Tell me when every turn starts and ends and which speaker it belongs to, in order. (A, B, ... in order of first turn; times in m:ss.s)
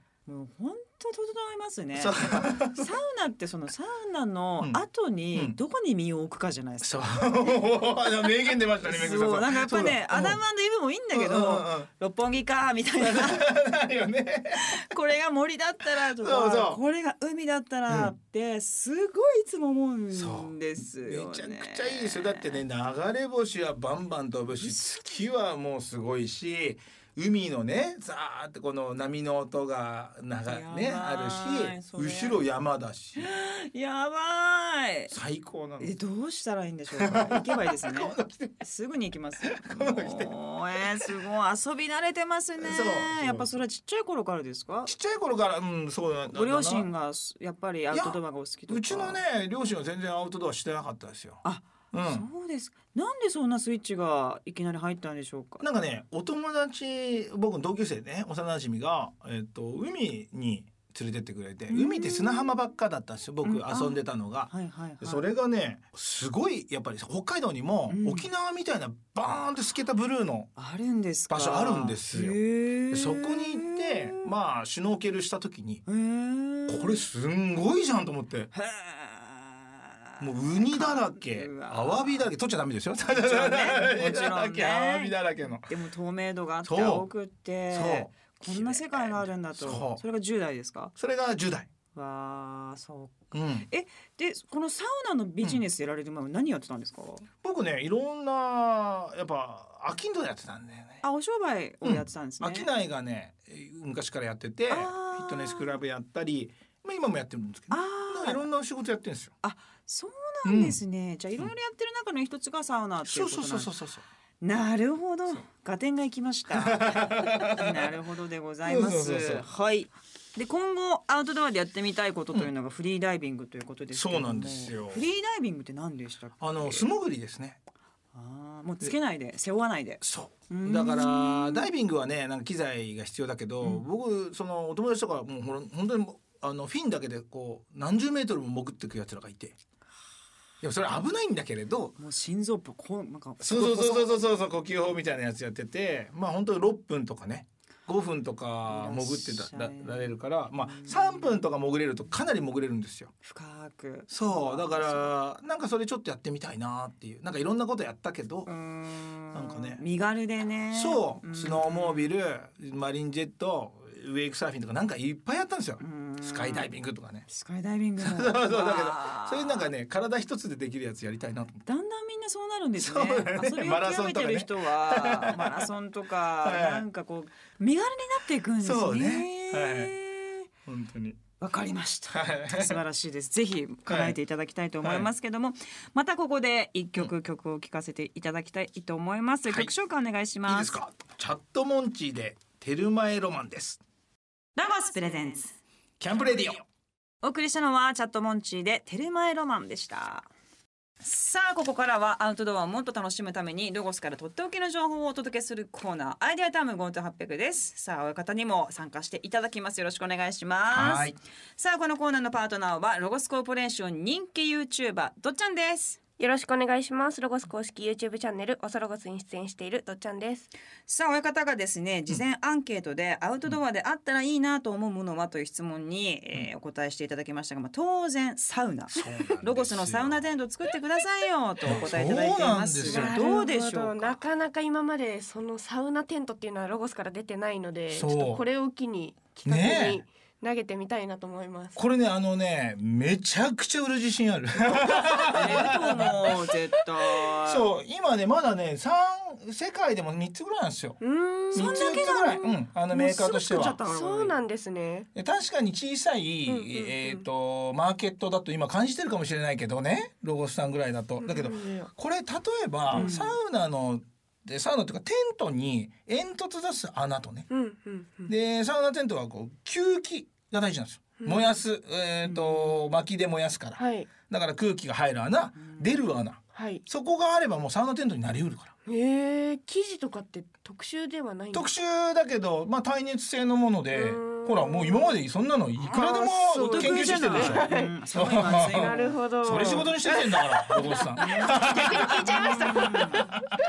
0:00.3-0:07.5 A
0:02.0-0:02.9 B
0:06.8-0:10.4 B
0:08.8-0:13.5 A
0:11.1-0:11.9 B
0:13.0-0:14.8 B
0:14.6-0:22.6 A
0:15.9-0:16.8 B
0:17.9-0:18.1 B
0:20.1-0:33.3 B
0:24.6-0:25.2 A
0:30.5-0:32.4 A
0:33.2-0:35.1 A
0:35.1-0:35.9 B
0:35.8-0:44.9 A
0:37.0-0:38.6 B
0:39.5-0:40.4 B
0:42.6-0:43.6 B
0:44.9-0:46.9 B
0:46.3-0:49.2 A
0:47.9-0:52.3 B
0:51.4-0:55.6 A
0:55.6-1:10.5 B
1:01.7-1:02.6 A
1:03.4-1:05.3 A
1:07.9-1:08.3 A
1:10.6-1:14.3 A
1:11.3-1:12.4 B
1:12.9-1:15.8 B
1:15.9-1:17.1 A
1:16.7-1:18.5 B
1:18.5-1:22.3 A
1:20.2-1:25.7 B
1:23.1-1:30.9 A
1:26.6-1:27.1 B
1:27.7-1:30.0 B
1:31.0-1:31.7 B
1:31.9-1:37.3 A
1:33.3-1:33.7 B
1:37.4-1:41.0 B
1:41.0-1:42.7 A
1:41.8-1:49.3 B
1:44.7-1:45.8 A
1:47.7-1:48.4 A
1:49.4-1:53.7 A
1:50.4-1:50.8 B
1:53.0-1:54.0 B
1:54.4-2:06.9 A
1:56.5-1:57.8 B
1:58.6-1:59.5 B
2:03.9-2:05.0 B
2:06.4-2:07.6 B
2:08.1-2:11.7 A
2:10.0-2:19.6 B
2:20.6-2:22.0 B
2:22.0-2:24.3 A
2:23.4-2:33.1 B
2:28.7-2:31.4 A
2:33.2-2:35.1 A
2:34.1-2:38.5 B
2:38.5-2:42.1 A
2:39.3-2:39.8 B
2:40.7-2:47.3 B
2:45.8-2:46.7 A
2:47.3-2:49.7 A
2:48.0-2:51.6 B
2:51.7-3:00.5 A
2:52.8-2:55.7 B
2:56.4-2:56.9 B
2:58.6-3:00.0 B
3:00.7-3:01.2 B
3:01.4-3:10.8 A
3:02.1-3:02.8 B
3:03.9-3:04.2 B
3:04.8-3:05.1 B
3:10.5-3:13.8 B
3:14.6-3:15.6 A
3:16.0-3:16.7 B
3:17.2-3:20.3 A
3:21.0-3:36.0 A
3:30.7-3:31.2 B
3:36.2-3:40.5 C
3:40.9-3:54.2 A
3:48.9-3:50.2 B
3:51.6-3:53.4 B
3:52.8-4:01.8 C
3:57.9-3:58.4 B
3:59.5-4:00.0 B
4:01.8-4:06.5 B
4:05.0-4:05.7 C
4:05.3-4:07.7 A
4:07.1-4:11.0 B
4:11.0-4:15.1 C
4:11.5-4:13.8 B
4:11.5-4:12.4 A
4:13.6-4:14.3 A
4:15.2-4:27.5 B
4:16.5-4:17.2 C
4:21.2-4:21.9 C
4:22.9-4:23.2 C
4:22.9-4:23.4 A
4:27.5-4:28.3 C
4:28.3-4:38.7 B
4:31.2-4:31.6 C
4:32.3-4:32.6 A
4:33.8-4:34.1 C
4:35.6-4:36.0 A
4:36.5-4:36.8 C
4:38.9-4:41.7 C
4:41.5-4:53.2 B
4:43.9-4:45.2 C
4:45.8-4:48.0 C
4:46.6-4:49.9 A
4:48.5-4:53.5 C
4:51.2-4:53.3 A